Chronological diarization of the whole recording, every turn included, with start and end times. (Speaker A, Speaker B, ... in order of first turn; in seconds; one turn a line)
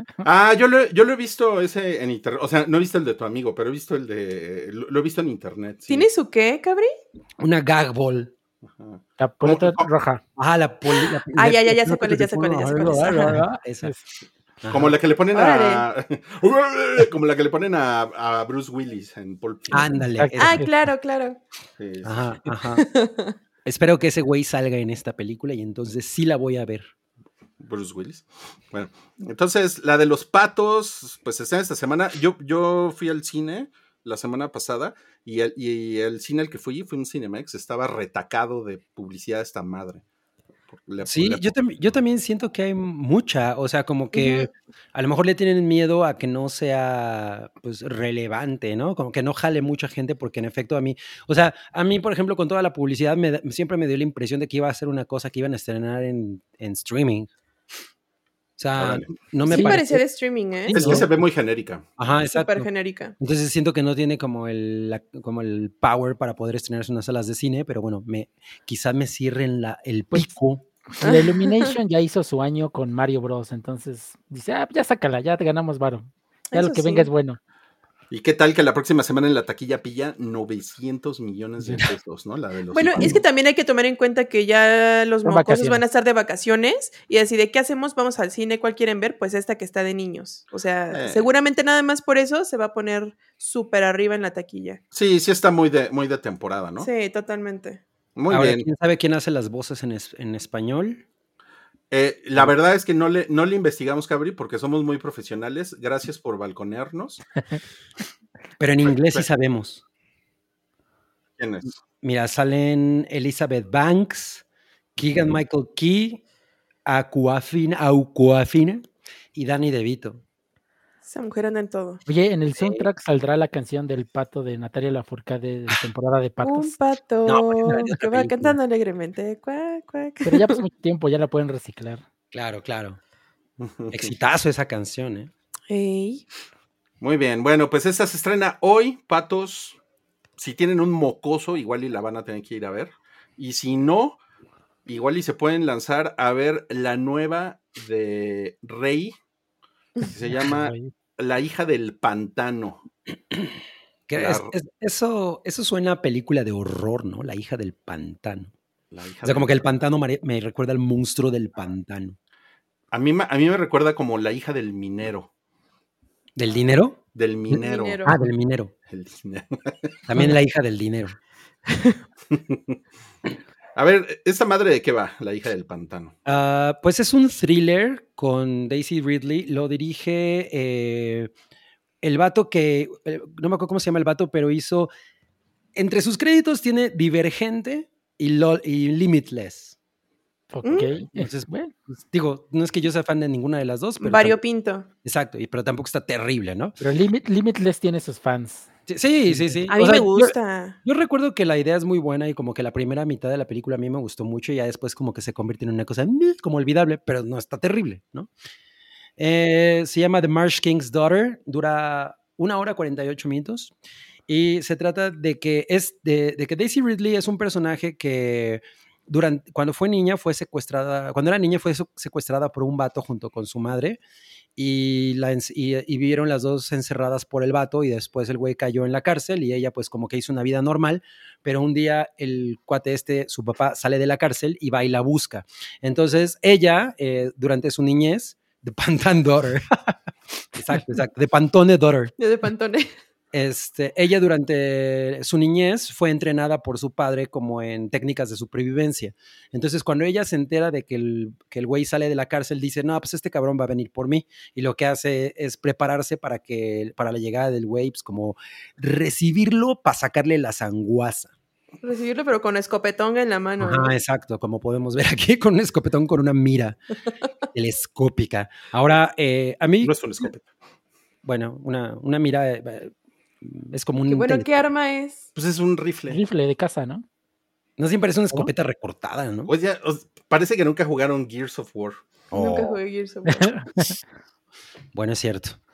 Speaker A: 0.2-6.1
Speaker B: 5.9-6.9
Speaker C: 7.4-8.3
Speaker A: 8.8-9.9
Speaker D: 9.2-10.2
Speaker C: 10.4-13.9
Speaker B: 11.4-13.4
Speaker D: 13.2-14.0
Speaker C: 14.6-15.0
Speaker A: 14.7-20.0
Speaker B: 15.3-15.8
Speaker C: 19.7-20.6
Speaker D: 20.2-20.7
Speaker B: 20.4-21.4
Speaker A: 21.8-22.3
Speaker C: 22.0-22.8
Speaker B: 22.7-23.4
Speaker C: 23.6-26.9
Speaker A: 27.6-40.0
Speaker A: 40.7-41.6
Speaker C: 41.0-57.3
Speaker B: 44.1-44.5
Speaker C: 58.6-60.0
Speaker A: 58.8-59.1
Speaker B: 59.5-61.0
Speaker D: 59.5-59.8
Speaker C: 60.7-61.1
Speaker A: 60.7-61.9
Speaker C: 62.0-62.7
Speaker B: 62.3-63.1
Speaker C: 63.2-70.7
Speaker D: 71.0-77.4
Speaker B: 71.0-71.8
Speaker B: 76.5-77.1
Speaker A: 78.1-83.2
Speaker B: 82.7-94.8
Speaker D: 85.2-85.8
Speaker A: 90.9-91.3
Speaker A: 94.9-96.9
Speaker B: 96.8-97.8
Speaker A: 98.2-98.7
Speaker C: 98.3-101.0
Speaker A: 101.9-107.2
Speaker C: 108.6-109.8
Speaker A: 111.4-111.7
Speaker C: 112.0-114.4
Speaker C: 115.0-116.2
Speaker C: 116.9-120.2
Speaker B: 121.0-122.0
Speaker D: 122.1-126.7
Speaker B: 126.4-130.6
Speaker C: 127.3-128.6
Speaker D: 130.2-132.0
Speaker C: 132.3-133.0
Speaker A: 133.6-134.2
Speaker C: 133.9-135.3
Speaker B: 135.7-136.2
Speaker A: 137.0-139.8
Speaker A: 140.4-144.2
Speaker A: 144.9-149.2
Speaker A: 150.1-152.8
Speaker D: 150.3-150.9
Speaker C: 153.3-153.6
Speaker C: 154.1-158.5
Speaker A: 154.1-154.5
Speaker A: 158.9-159.7
Speaker C: 159.2-162.2
Speaker A: 162.9-165.3
Speaker C: 166.4-167.0
Speaker A: 167.1-168.1
Speaker B: 167.5-168.2
Speaker C: 168.1-168.7
Speaker A: 168.9-170.0
Speaker C: 170.1-171.2
Speaker B: 171.7-172.0
Speaker A: 172.3-172.8
Speaker A: 173.8-176.2
Speaker C: 176.3-181.3
Speaker C: 182.0-184.9
Speaker C: 185.8-189.8
Speaker D: 190.5-191.7
Speaker B: 190.6-190.9
Speaker C: 190.9-194.4
Speaker B: 194.0-194.9
Speaker C: 195.0-196.8
Speaker D: 196.8-198.7
Speaker C: 198.9-208.3
Speaker D: 199.3-199.7
Speaker B: 199.7-200.8
Speaker C: 209.2-213.7
Speaker C: 214.3-224.0
Speaker C: 224.6-240.0
Speaker C: 240.5-242.1
Speaker B: 242.2-242.9
Speaker C: 243.3-261.3
Speaker B: 261.8-263.9
Speaker C: 263.6-266.8
Speaker C: 267.5-269.9
Speaker A: 269.8-270.5
Speaker C: 271.2-274.5
Speaker B: 274.1-275.3
Speaker A: 275.4-276.2
Speaker D: 276.1-277.1
Speaker C: 277.8-279.5
Speaker A: 279.5-282.1
Speaker C: 282.3-282.8
Speaker B: 282.3-283.5
Speaker D: 283.3-283.9
Speaker C: 284.9-285.6